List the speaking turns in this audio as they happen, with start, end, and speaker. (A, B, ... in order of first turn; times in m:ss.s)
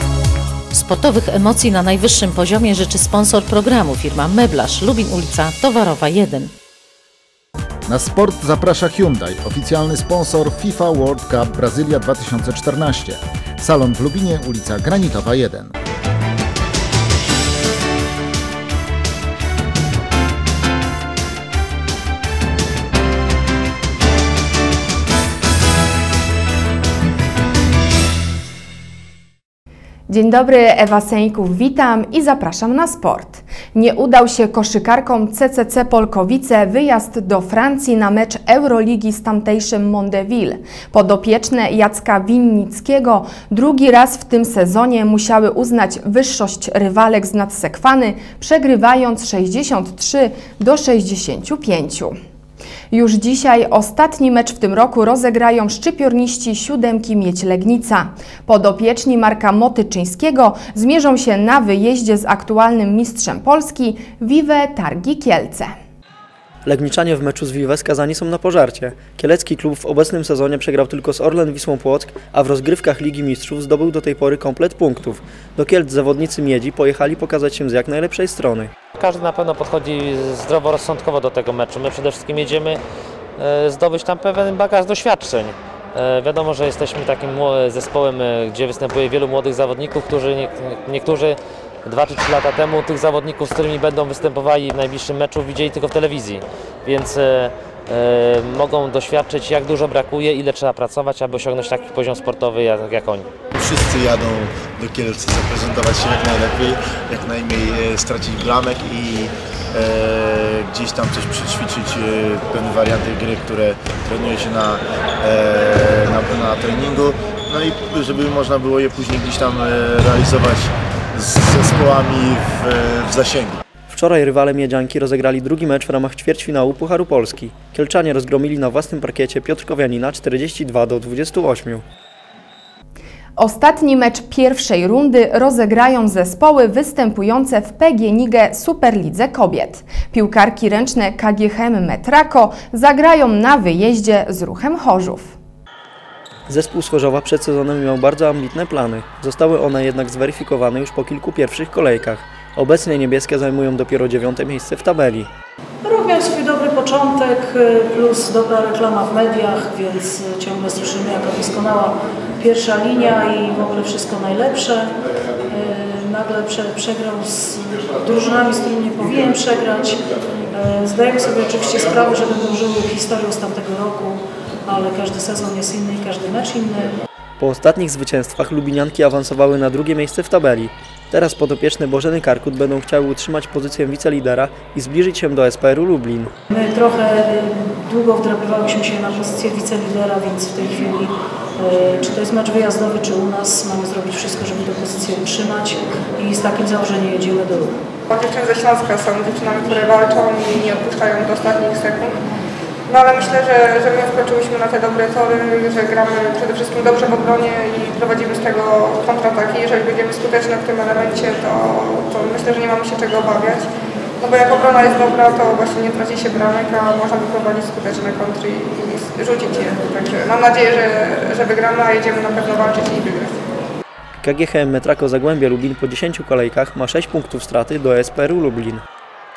0:00.7-0:06.5 A
0:07.9-0:15.7 B
0:30.1-0:52.1 C
0:52.9-1:05.7 C
1:06.6-1:18.7 D
1:19.0-1:22.8 E
1:23.4-1:43.3 E
1:43.6-2:03.6 F
2:03.9-2:11.8 D
2:13.4-2:25.3 C
2:26.5-2:35.3 D
2:35.8-2:44.9 G
2:45.5-2:57.0 G
2:57.4-3:06.3 D
3:06.5-3:17.8 G
3:18.1-3:22.2 H
3:22.8-3:43.4 H
3:44.2-3:48.8 D